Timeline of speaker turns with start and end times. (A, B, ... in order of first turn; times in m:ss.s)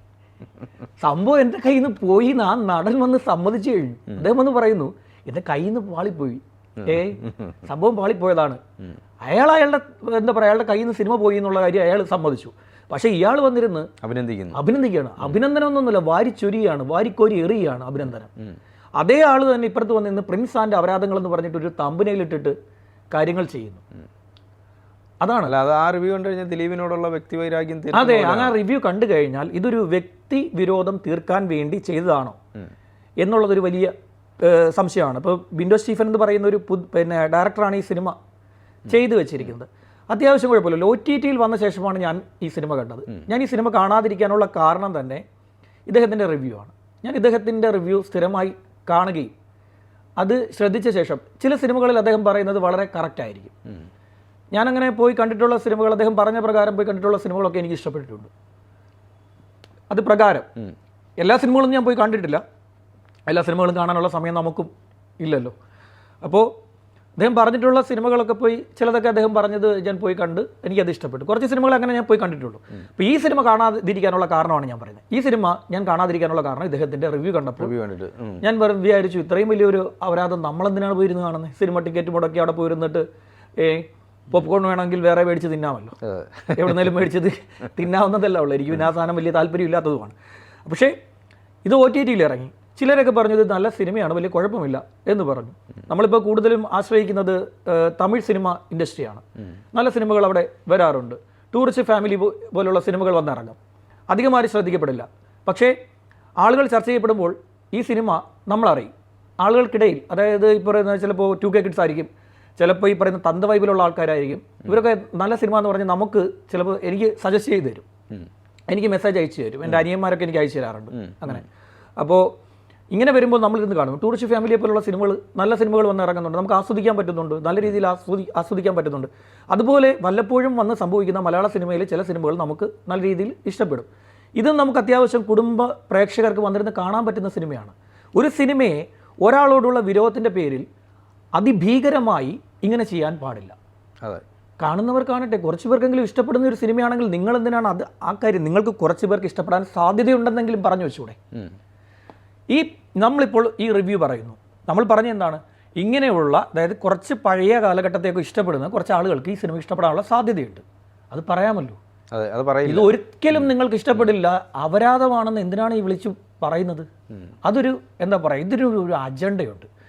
0:01.0-0:08.6 A
0:06.9-0:07.6 B
0:09.2-0:13.9 A
0:14.0-0:14.6 B
0:14.5-0:18.3 A
0:19.0-0:22.6 A
0:23.1-0:23.8 A
0:25.2-0:25.5 A
0:25.5-0:28.6 B
0:27.9-0:32.4 A
0:33.2-0:38.2 A
0:38.9-0:45.2 A
0:45.9-0:49.3 A
0:50.2-0:53.5 A
0:54.5-0:58.3 A
0:59.9-1:00.5 A
1:01.2-1:02.4 A
1:03.3-1:05.5 A
1:06.2-1:06.5 A
1:07.2-1:17.7 A
1:17.6-1:18.4 B
1:18.4-1:23.0 A
1:23.6-1:26.0 A
1:26.0-1:26.9 B
1:26.5-1:30.2 A
1:30.7-1:31.0 A
1:31.6-1:39.2 A
1:39.7-1:43.6 A
1:44.1-1:45.8 A
1:46.4-1:57.8 A
1:58.7-2:01.4 A
2:00.9-2:01.4 B
2:02.0-2:02.3 A
2:02.9-2:20.6 A
2:21.4-2:23.6 A
2:24.6-2:31.2 A
2:32.5-2:41.8 A
2:42.1-2:43.5 B
2:42.6-2:46.9 A
2:47.4-2:49.7 A